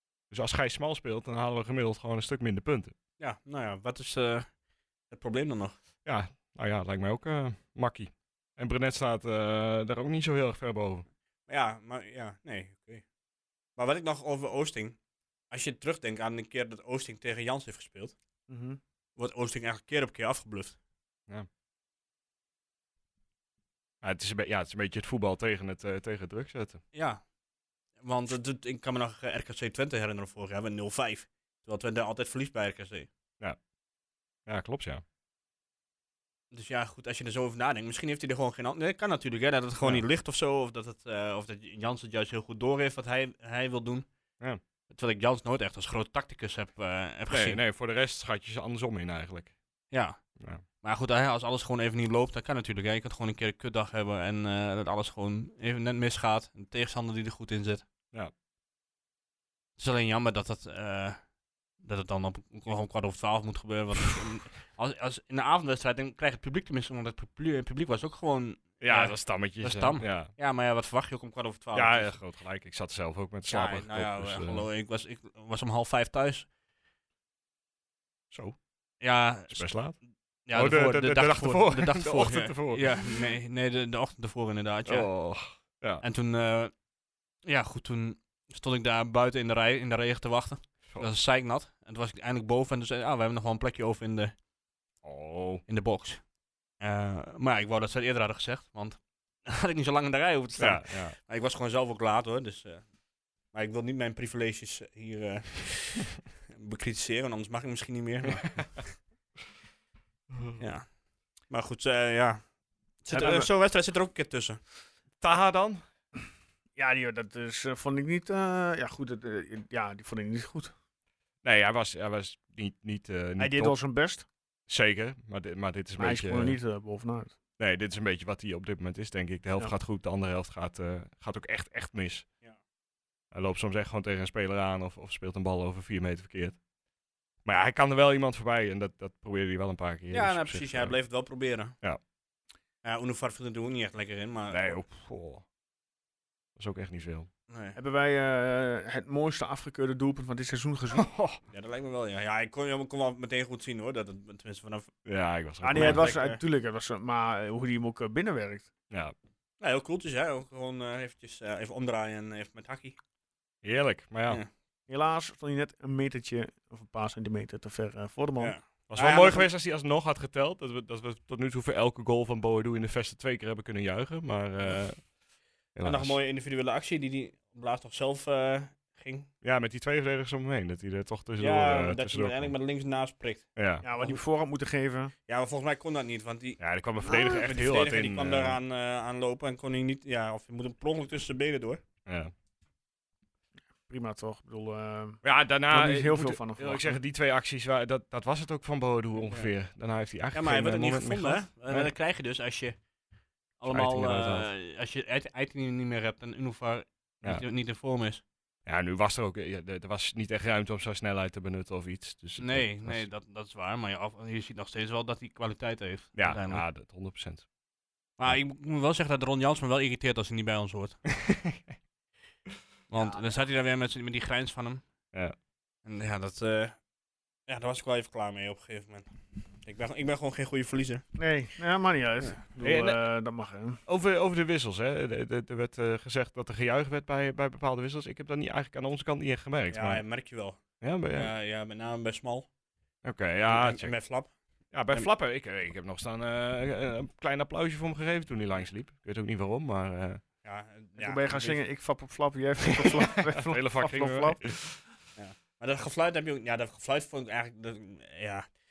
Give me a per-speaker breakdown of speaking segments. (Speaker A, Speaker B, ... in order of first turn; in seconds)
Speaker A: 0.3-2.9, 6.0-11.1, 24.0-26.8, 34.5-35.0, 47.3-49.5, 68.8-70.3, 71.7-74.7, 78.3-78.6, 79.5-80.0, 80.5-83.3, 84.8-86.0, 95.0-95.6, 100.6-101.1, 110.3-110.6, 115.2-115.8, 121.4-123.8, 124.7-126.6, 127.6-132.2, 133.3-136.6, 137.4-140.9, 144.5-145.4, 146.6-147.3, 150.9-151.4, 155.1-156.1, 163.6-164.4, 168.9-175.1, 175.7-176.2, 179.4-182.5, 183.6-183.8, 186.6-188.6, 192.1-192.3, 195.2-201.9, 203.7-204.5, 208.6-213.1, 216.2-217.5, 221.1-221.6, 232.6-233.0, 233.9-240.0, 240.8-241.3, 243.0-243.9, 244.7-250.2, 252.8-254.8
Speaker B: 3.2-4.5, 5.1-5.8, 11.5-13.0, 13.8-15.0, 15.5-18.1, 19.2-20.8, 26.9-27.2, 28.0-33.1, 36.5-44.0, 44.9-47.6, 49.9-50.2, 50.8-57.8, 59.8-61.2, 61.8-72.2, 73.5-76.5, 79.0-80.0, 80.5-85.1, 86.0-86.7, 87.4-94.3, 95.7-96.2, 96.8-102.9, 103.5-109.0, 110.6-110.9, 111.5-112.4, 113.0-114.6, 140.1-141.7, 142.8-144.8, 147.5-147.8, 151.5-154.9, 155.7-156.4, 159.6-163.0, 168.4-169.5, 175.8-179.3, 181.4-184.2, 185.3-186.6, 187.1-191.8, 199.2-199.5, 200.3-202.8, 203.6-208.2, 212.4-216.6, 218.2-221.0, 222.9-224.8, 225.8-226.8, 227.5-231.0, 239.7-240.6, 241.1-242.5, 243.4-244.3, 250.4-251.6, 255.2-258.5
Speaker C: 18.5-18.8, 113.1-113.5, 116.8-120.7, 123.4-124.2, 126.0-127.3, 147.7-151.1, 155.6-158.7, 164.9-168.5, 183.8-185.1, 193.8-197.0, 231.2-233.8, 251.0-254.5